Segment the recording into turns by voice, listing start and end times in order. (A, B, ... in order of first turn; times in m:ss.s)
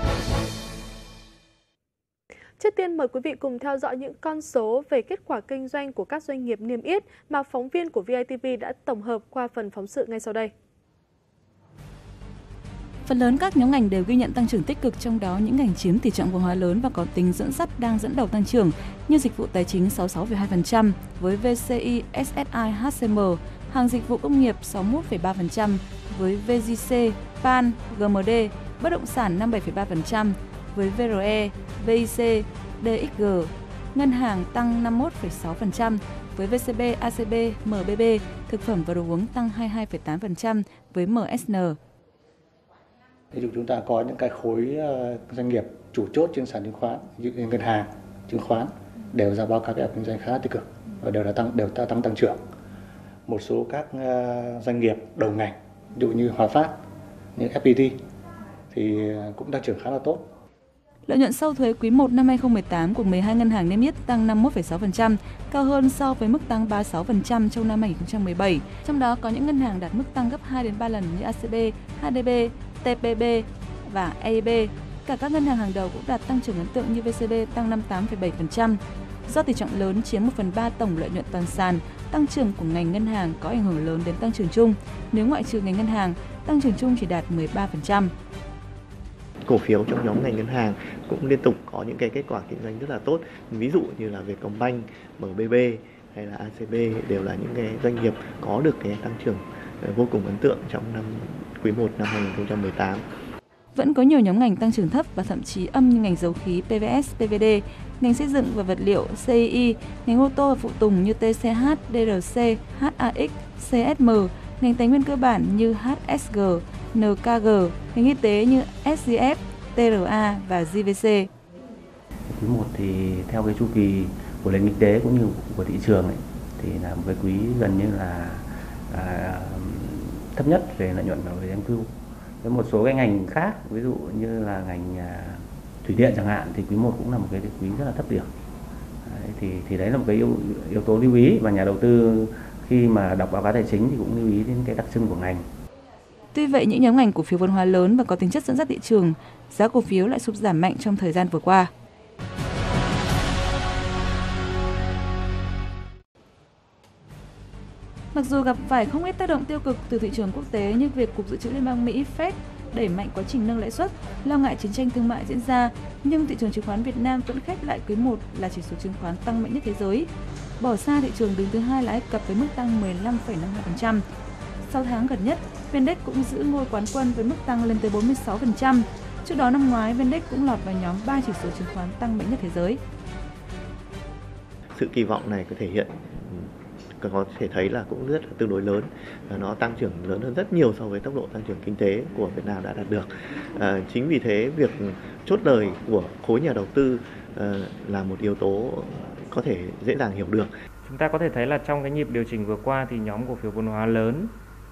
0:02.6-0:10.5 A
0:13.0-0:41.8 B
0:43.3-0:52.4 C
0:53.3-0:56.8 C
0:57.4-0:58.0 C
0:58.7-1:00.3 C
1:01.1-1:28.1 B
1:29.4-1:43.0 D
1:43.7-2:01.3 B
2:02.3-2:18.3 E
2:19.0-2:25.5 E
2:26.3-2:31.7 B
2:38.1-2:50.1 B
2:50.6-2:54.0 B
2:54.7-3:02.8 B
3:04.7-3:20.5 D
3:20.8-3:24.3 F